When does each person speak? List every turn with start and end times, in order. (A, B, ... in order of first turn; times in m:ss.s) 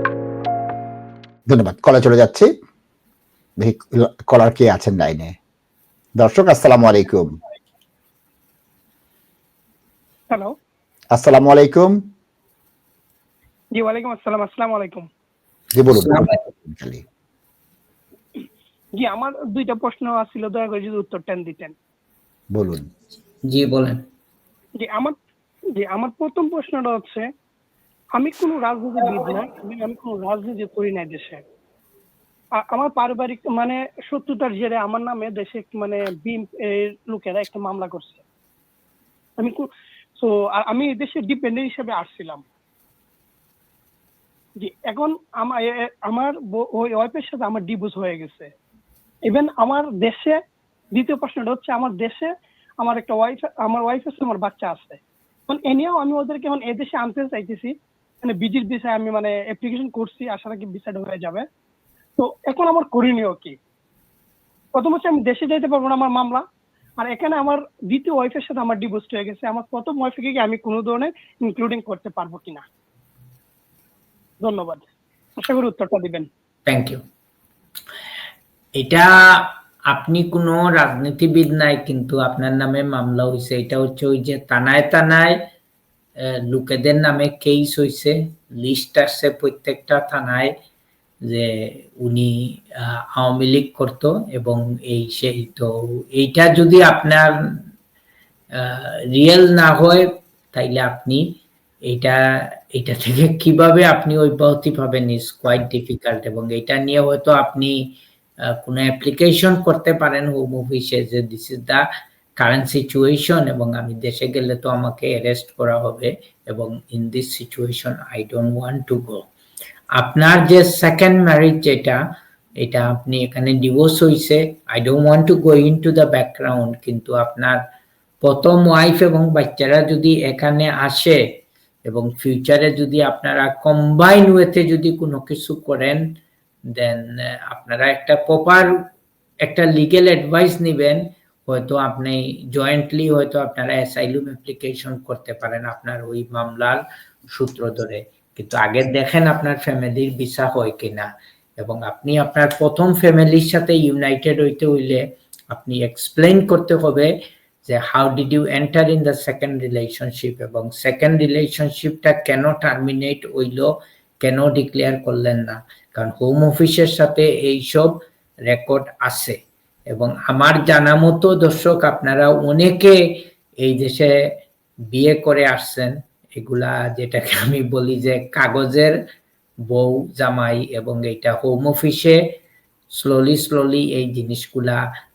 0:01.5-0:02.5 A
0:03.6-0:05.3 A
0:06.2-0:07.3 A
0:11.1-0:12.0 A
0:13.7-0:15.1 B
0:15.7-0:17.0 A
0:15.9-0:16.3 C
0:19.0-0:21.7 B
0:22.5-0:22.9 A
0:23.5-0:24.0 C
0:24.8-0:25.1 B
0:25.7-0:27.3 B
0:28.2-0:31.4 B
0:32.6-0:38.2 B
0:39.4-0:42.4 B
0:44.6-0:48.5 B
0:49.3-0:50.4 B
0:50.9-1:01.4 B
1:02.2-1:03.6 B
1:04.7-1:06.4 B
1:07.0-1:12.6 B
1:14.4-1:14.8 B
1:15.4-1:16.3 B
1:16.6-1:17.0 C
1:18.8-1:25.4 C
1:26.2-1:30.5 C
1:31.2-1:37.3 C
1:38.6-1:47.9 C
1:48.4-1:51.8 C
1:52.4-1:59.2 C
2:00.0-2:02.0 C
2:02.6-2:07.6 C
2:08.2-2:16.0 C
2:16.7-2:18.7 C
2:19.4-2:37.1 C
2:37.6-2:49.4 C
2:49.9-2:54.1 C
2:54.9-2:59.0 C
2:59.7-3:02.4 C
3:02.9-3:04.8 C